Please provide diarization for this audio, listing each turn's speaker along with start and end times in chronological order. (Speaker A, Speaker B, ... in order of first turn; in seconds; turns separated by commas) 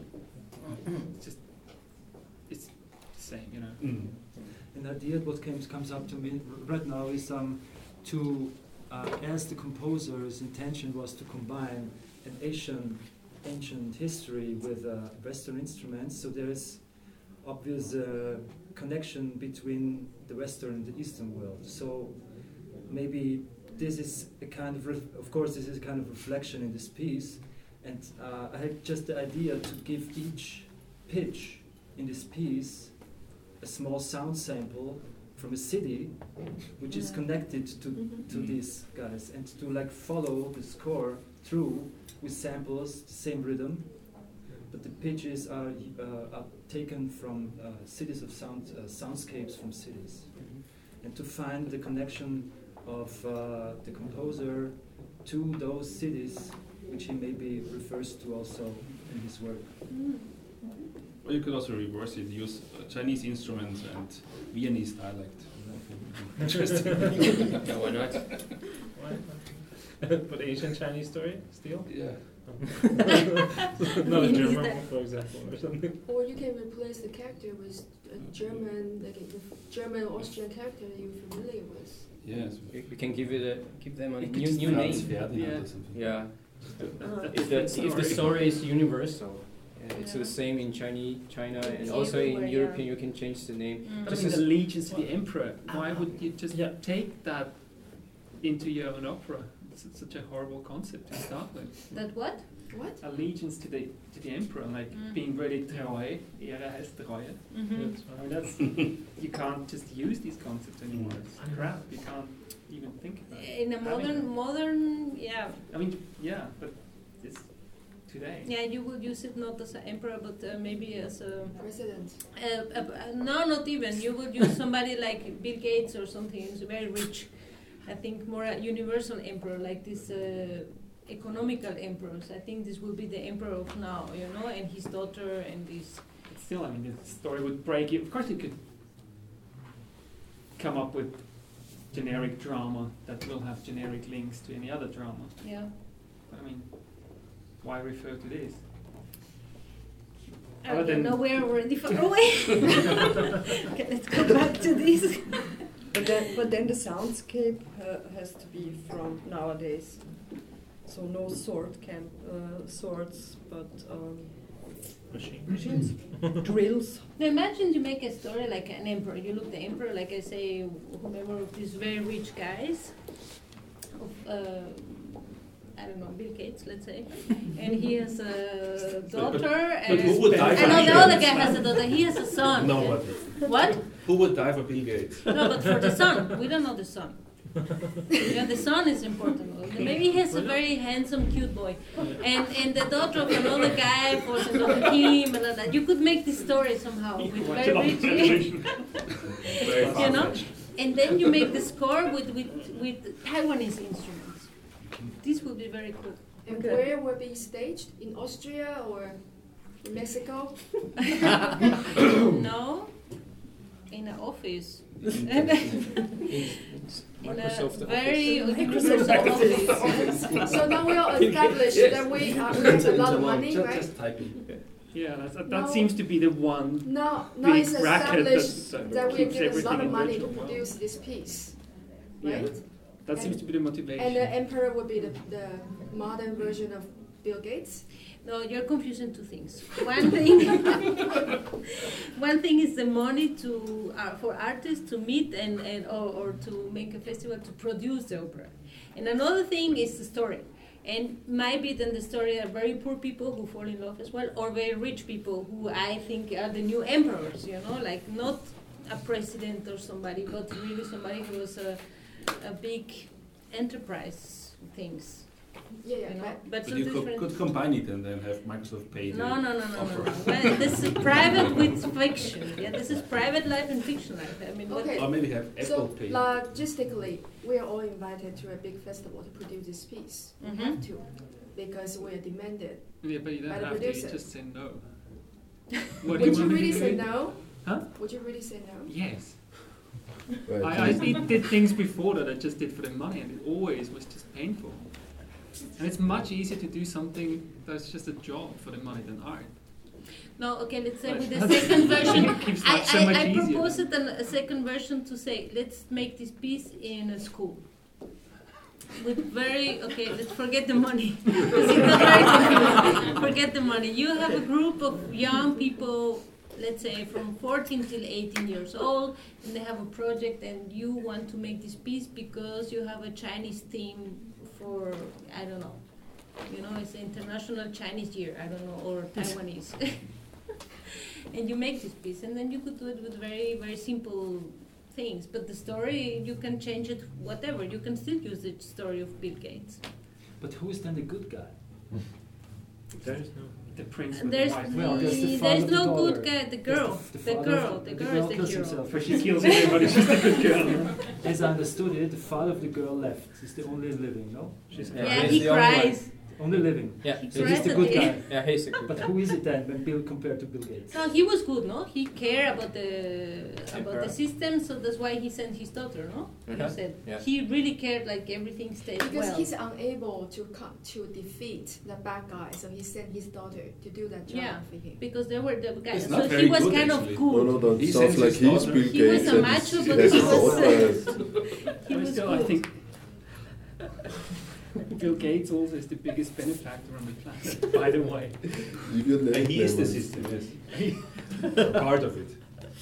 Speaker A: 0.6-1.1, Speaker B: 1.1-4.3, Speaker C: 3.8-4.2, Speaker D: 4.5-59.9, Speaker E: 36.9-37.6, Speaker F: 37.9-38.2, Speaker C: 38.3-38.6, Speaker A: 50.4-50.6, Speaker E: 59.9-60.3, Speaker C: 61.2-67.7, Speaker D: 65.5-65.9, Speaker A: 67.6-68.4, Speaker C: 68.3-68.6, Speaker G: 68.9-76.0, Speaker C: 71.8-72.5, Speaker E: 74.1-75.2, Speaker H: 76.0-82.1, Speaker C: 82.2-83.2, Speaker A: 82.7-94.7, Speaker C: 84.2-86.9, Speaker B: 85.2-88.6, Speaker F: 87.0-87.6, Speaker E: 89.9-90.4, Speaker E: 91.6-93.2, Speaker E: 93.8-94.3, Speaker B: 94.0-102.4, Speaker H: 95.7-96.3, Speaker G: 96.5-96.8, Speaker E: 101.9-102.5, Speaker H: 102.7-103.0, Speaker B: 103.0-114.3, Speaker E: 104.9-105.2, Speaker E: 107.5-108.0, Speaker G: 107.7-108.4, Speaker C: 108.6-108.9, Speaker C: 110.9-111.2, Speaker G: 111.3-111.9, Speaker E: 113.3-115.6, Speaker B: 115.7-118.5, Speaker E: 118.4-136.1, Speaker H: 121.5-122.2, Speaker B: 136.3-138.7, Speaker B: 140.6-148.6, Speaker E: 145.4-145.7, Speaker E: 150.6-155.7, Speaker B: 150.6-151.9, Speaker F: 155.9-167.1, Speaker G: 165.1-166.4, Speaker E: 167.2-173.2, Speaker E: 173.9-183.9, Speaker C: 179.1-185.3, Speaker B: 179.8-182.2, Speaker E: 185.3-198.9, Speaker G: 190.3-190.6, Speaker G: 192.0-192.4, Speaker B: 197.3-199.0, Speaker C: 199.5-200.8, Speaker B: 199.6-200.5, Speaker E: 199.7-206.2, Speaker H: 206.4-211.2, Speaker F: 206.5-206.9, Speaker E: 212.1-213.2, Speaker E: 213.9-216.1, Speaker C: 215.1-215.8, Speaker A: 215.3-222.7, Speaker E: 217.2-220.4, Speaker F: 218.2-220.1, Speaker H: 219.8-223.9, Speaker C: 223.7-224.3, Speaker B: 224.9-230.7, Speaker H: 225.4-237.9, Speaker B: 232.2-234.3, Speaker E: 238.2-241.1, Speaker E: 242.1-267.3, Speaker H: 265.8-266.5, Speaker C: 266.6-271.8, Speaker E: 269.1-275.0, Speaker C: 272.8-273.1, Speaker H: 274.7-284.2, Speaker C: 274.9-276.3, Speaker E: 280.4-280.8, Speaker B: 283.0-285.5, Speaker B: 286.0-289.5, Speaker H: 286.0-289.1, Speaker I: 290.4-291.3, Speaker B: 290.6-299.6, Speaker E: 300.4-308.0, Speaker B: 301.0-303.9, Speaker E: 308.9-330.5, Speaker F: 315.2-315.7, Speaker E: 331.3-339.8, Speaker D: 340.4-341.9, Speaker G: 343.0-343.6, Speaker D: 343.0-343.3, Speaker B: 343.7-345.3, Speaker E: 344.1-349.3, Speaker D: 344.6-361.0, Speaker B: 348.8-351.2, Speaker B: 354.7-355.2, Speaker A: 354.9-359.1, Speaker E: 355.0-358.5, Speaker E: 360.9-369.5, Speaker A: 363.7-364.1, Speaker A: 366.4-367.2, Speaker H: 368.9-375.0, Speaker E: 374.3-377.8, Speaker C: 375.9-380.3, Speaker I: 377.3-381.1, Speaker D: 377.9-381.0, Speaker E: 378.7-382.7, Speaker B: 380.2-381.2, Speaker B: 381.8-383.3, Speaker B: 384.9-388.8, Speaker I: 388.8-390.4, Speaker C: 389.3-392.6, Speaker B: 390.6-391.6